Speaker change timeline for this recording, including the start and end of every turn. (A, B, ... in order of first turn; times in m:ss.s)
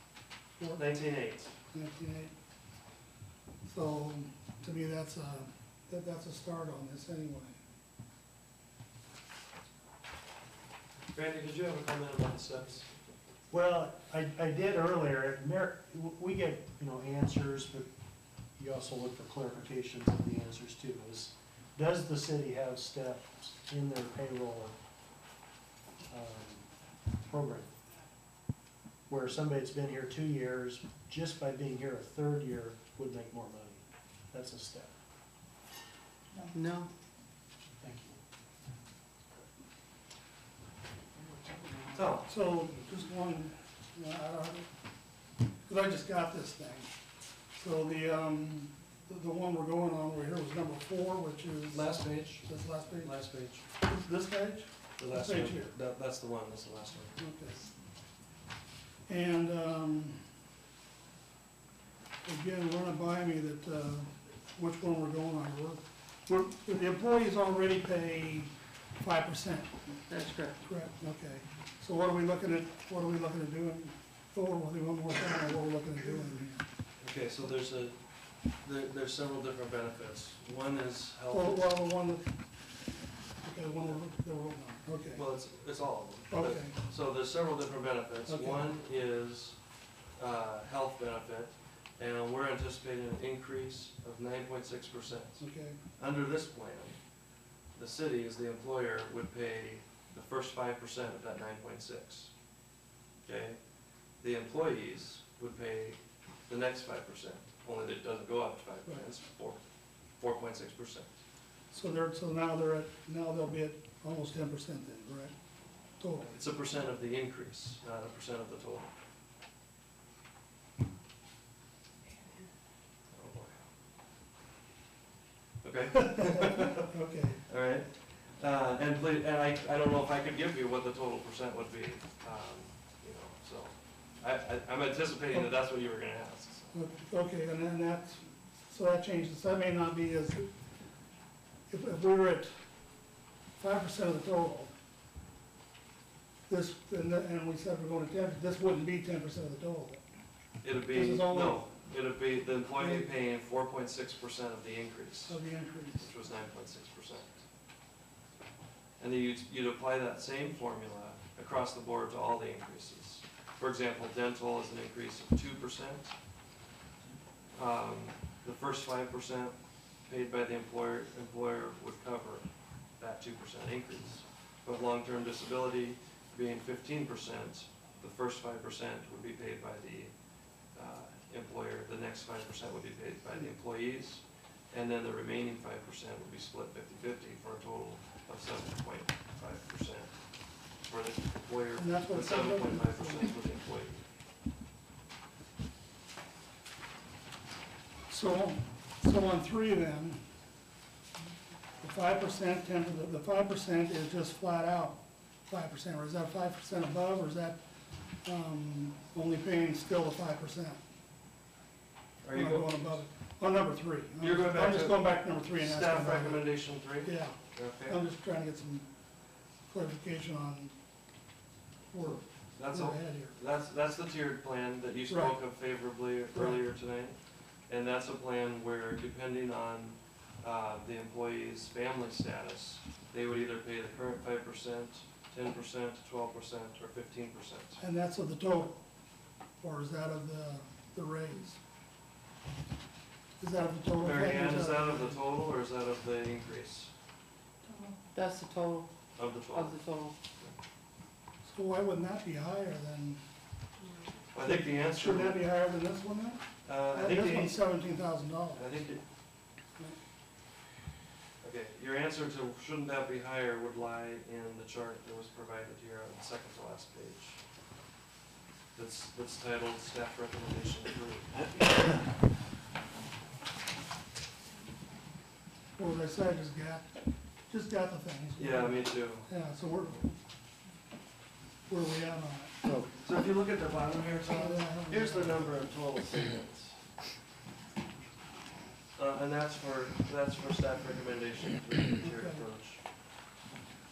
0:00.6-0:01.0 A
0:00.7-0:01.5 B
0:01.7-0:02.3 A
0:03.6-0:07.6 A
0:11.1-0:12.9 B
0:13.5-0:17.9 C
0:18.6-0:24.7 C
0:26.1-0:26.6 C
0:27.2-0:27.7 C
0:29.1-0:34.9 C
0:36.5-0:36.9 D
0:37.8-0:38.2 C
0:41.9-0:42.3 B
0:42.2-0:44.7 A
0:45.6-0:46.9 A
0:47.5-0:53.2 A
0:51.7-0:53.6 B
0:53.8-0:55.7 A
0:55.0-0:57.2 B
0:57.2-0:57.6 A
0:59.1-1:00.2 A
1:02.2-1:09.8 A
1:10.1-1:10.6 D
1:10.6-1:16.6 A
1:17.0-1:18.0 B
1:18.6-1:21.6 B
1:21.3-1:22.3 A
1:23.4-1:25.2 A
1:25.1-1:29.6 B
1:26.3-1:26.8 A
1:28.3-1:28.7 A
1:30.2-1:35.4 B
1:35.4-1:35.8 A
1:36.0-1:37.0 B
1:37.8-1:42.3 B
1:43.2-1:43.6 B
1:44.2-1:49.6 B
1:50.2-1:51.2 B
1:51.7-1:55.3 A
1:56.0-1:56.4 A
1:56.3-1:58.9 B
2:03.1-2:03.6 B
2:05.6-2:16.7 B
2:06.0-2:07.4 A
2:16.7-2:20.5 A
2:21.7-2:22.5 A
2:23.6-2:24.7 A
2:26.5-2:30.0 A
2:30.6-2:35.4 B
2:30.9-2:31.7 A
2:32.8-2:33.1 A
2:35.3-2:36.1 A
2:36.0-2:37.4 B
2:39.0-2:46.1 B
2:47.6-2:49.5 B
2:50.1-2:52.4 B
2:53.0-3:00.1 B
3:00.7-3:10.1 B
3:10.8-3:14.0 B
3:11.8-3:13.3 A
3:18.1-3:20.2 A
3:21.8-3:27.6 A
3:28.2-3:30.8 A
3:32.2-3:33.0 B
3:32.3-3:36.5 A
3:34.2-3:38.0 B
3:37.0-3:38.9 A
3:39.7-3:40.7 A
3:41.9-3:43.3 A
3:42.6-3:47.2 B
3:45.1-3:45.4 A
3:46.3-3:46.6 A
3:47.7-3:57.8 B
3:57.8-3:58.8 A
3:59.6-4:01.6 A
4:03.4-4:05.2 A
4:04.0-4:06.9 B
4:08.1-4:08.9 D
4:09.1-4:09.8 B
4:09.5-4:10.1 D
4:11.4-4:13.2 A
4:14.3-4:15.4 B
4:14.4-4:18.7 A
4:16.6-4:17.6 B
4:18.5-4:19.0 B
4:21.4-4:27.4 B
4:28.7-4:32.0 B
4:35.8-4:36.9 A
4:37.5-4:40.1 A
4:38.4-4:39.3 B
4:41.7-4:42.7 A
4:43.0-4:46.8 B
4:44.2-4:45.6 A
4:49.0-4:52.8 B
4:52.0-4:52.4 A